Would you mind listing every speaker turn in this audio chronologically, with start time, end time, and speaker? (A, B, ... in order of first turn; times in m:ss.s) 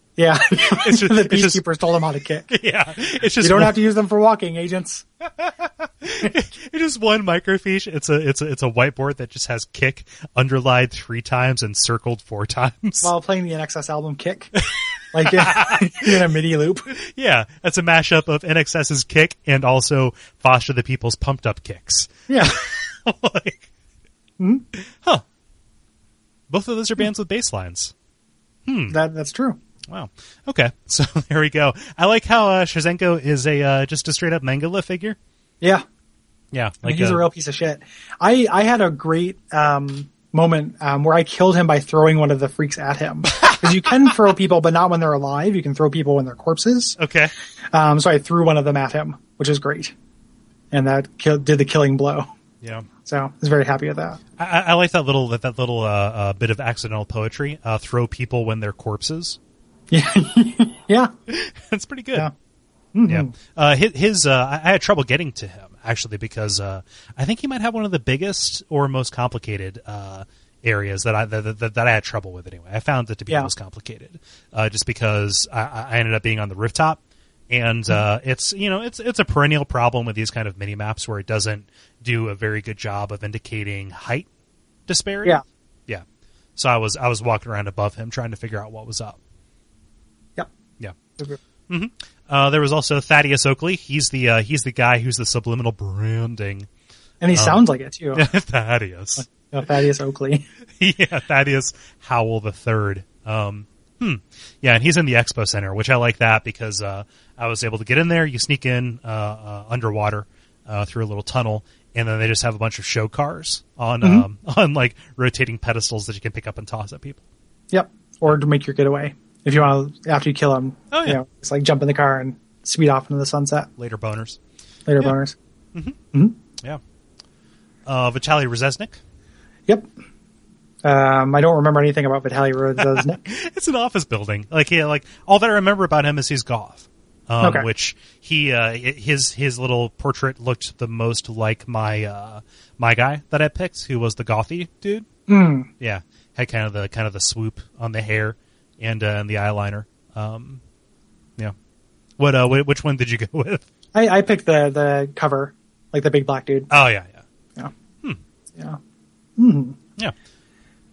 0:00.2-0:02.5 A
0:00.5-0:01.6 B
0:02.5-0:03.8 B
0:03.4-0:05.0 A
0:05.4-0:13.1 B
0:13.0-0:14.5 A
0:14.6-0:16.2 B
0:15.1-0:16.9 A
0:16.9-0:23.7 B
0:22.3-0:22.6 A
0:24.4-0:24.7 A
0:24.8-0:25.2 B
0:26.5-0:27.9 B
0:28.7-0:29.0 B
0:28.9-0:29.6 A
0:29.9-0:35.2 B
0:36.5-0:37.2 B
0:36.8-0:47.0 A
0:43.3-0:43.6 B
0:47.0-0:47.3 B
0:47.7-0:49.9 A
0:50.7-0:52.3 A
0:52.6-0:52.9 B
0:53.0-0:54.2 A
0:54.4-0:59.4 B
0:59.9-1:01.1 A
1:01.3-1:02.3 B
1:03.0-1:03.3 A
1:03.1-1:24.3 B
1:24.9-1:26.0 B
1:26.6-1:29.2 B
1:31.7-1:36.7 B
1:37.2-1:38.3 A
1:37.3-1:39.3 B
1:39.3-1:40.5 A
1:40.8-1:57.2 B
1:57.7-2:03.7 A
2:00.9-2:01.2 B
2:03.8-2:04.4 B
2:04.9-2:05.4 A
2:07.9-2:09.0 B
2:10.8-2:13.2 A
2:12.8-2:25.1 B
2:17.4-2:17.7 A
2:25.3-2:25.7 A
2:25.8-2:30.6 B
2:32.2-2:33.6 B
2:33.9-2:36.7 A
2:36.7-2:37.2 B
2:39.4-2:39.8 A